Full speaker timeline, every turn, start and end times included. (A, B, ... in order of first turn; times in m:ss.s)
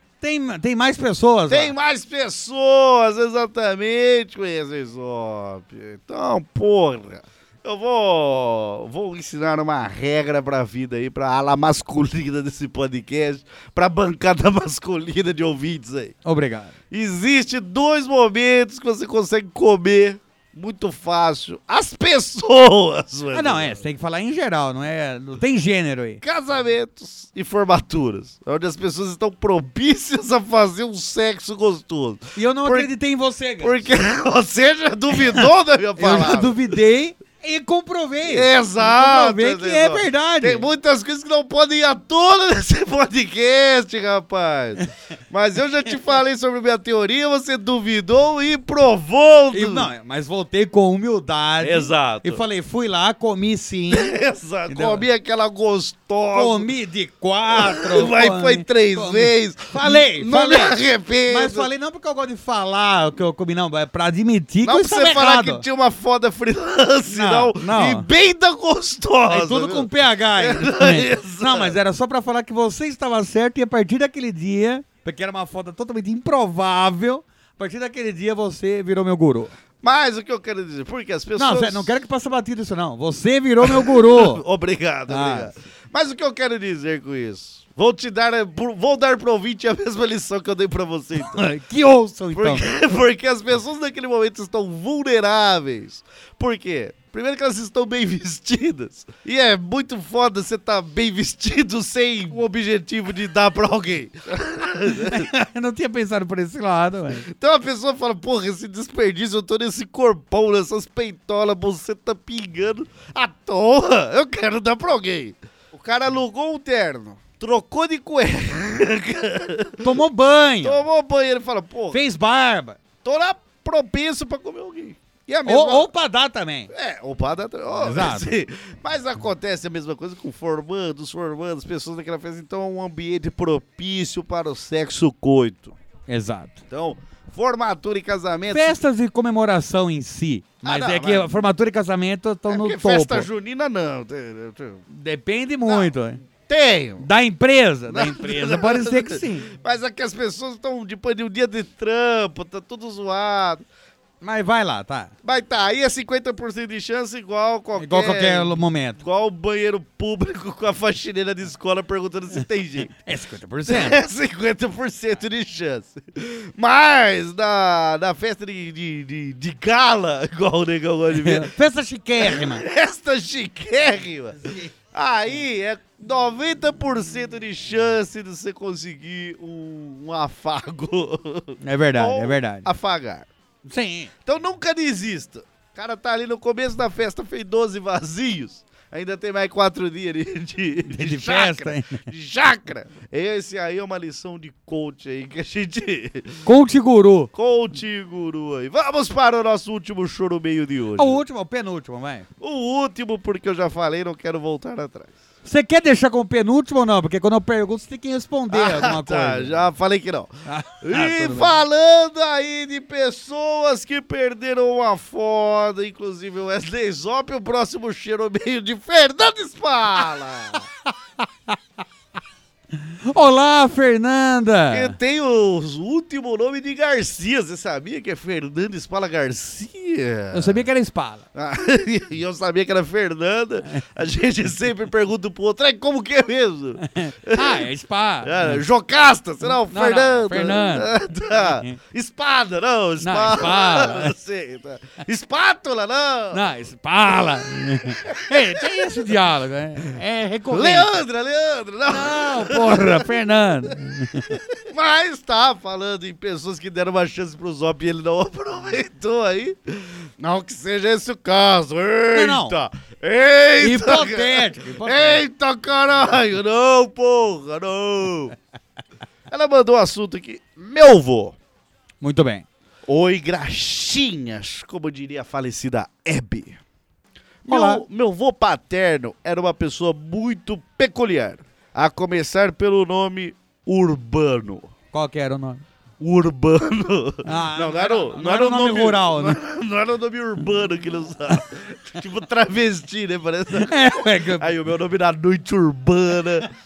0:00.2-0:01.7 A
0:01.5-0:16.2 B
0:16.2-0:16.7 A
0:16.9-0:23.8 B
0:23.3-0:26.2 A
0:26.2-0:32.9 B
0:32.4-0:33.8 A
0:33.6-0:36.6 B
0:36.0-0:40.6 A
0:38.2-0:49.9 B
0:49.5-0:54.1 A
0:51.6-0:52.4 B
0:53.9-0:56.7 B
0:54.7-0:55.0 A
0:56.3-1:00.8 A
0:57.5-1:01.7 B
1:01.3-1:05.6 A
1:04.6-1:11.8 B
1:07.1-1:08.1 A
1:09.3-1:19.5 A
1:19.8-1:21.9 B
1:21.4-1:24.4 A
1:23.6-1:31.4 B
1:25.1-1:25.5 A
1:31.2-1:32.6 A
1:32.3-1:45.3 B
1:44.9-1:47.3 A
1:47.3-2:00.0 B
1:59.8-2:00.8 A
2:00.6-2:02.0 B
2:01.9-2:02.8 A
2:03.0-2:05.9 B
2:05.4-2:06.7 A
2:06.7-2:15.7 B
2:07.8-2:08.3 A
2:16.1-2:16.6 A
2:16.7-2:18.8 B
2:18.5-2:23.3 A
2:20.6-2:21.3 B
2:22.5-2:24.8 B
2:24.9-2:26.2 A
2:25.6-2:27.0 B
2:27.0-2:29.5 A
2:27.9-2:33.6 B
2:34.2-2:35.1 A
2:35.2-2:42.9 B
2:37.8-2:39.0 A
2:43.0-2:44.0 A
2:43.6-2:51.5 B
2:51.1-2:52.6 A
2:52.2-3:03.3 B
3:01.6-3:02.7 A
3:03.6-3:04.1 A
3:04.2-3:16.4 B
3:10.9-3:12.0 A
3:16.4-3:17.3 A
3:17.3-3:21.2 B
3:21.0-3:22.3 A
3:22.4-3:25.1 B
3:25.4-3:29.7 A
3:28.5-3:40.7 B
3:30.4-3:31.5 A
3:41.2-3:41.6 A
3:43.0-3:45.0 A
3:44.7-3:50.6 B
3:50.3-3:51.2 A
3:51.3-3:57.7 B
3:56.8-3:58.6 A
3:58.2-4:06.4 B
3:59.7-4:01.8 A
4:03.0-4:04.1 A
4:06.3-4:10.9 A
4:07.9-4:08.8 B
4:10.5-4:13.1 B
4:11.9-4:14.3 A
4:14.3-4:28.3 B
4:22.1-4:22.6 A
4:23.6-4:25.2 A
4:29.3-4:31.4 B
4:32.0-4:32.4 A
4:32.9-4:36.6 B
4:37.4-4:44.7 B
4:37.5-4:37.8 A
4:44.9-4:45.6 A
4:46.0-4:56.5 B
4:47.2-4:49.4 A
4:53.6-4:54.5 A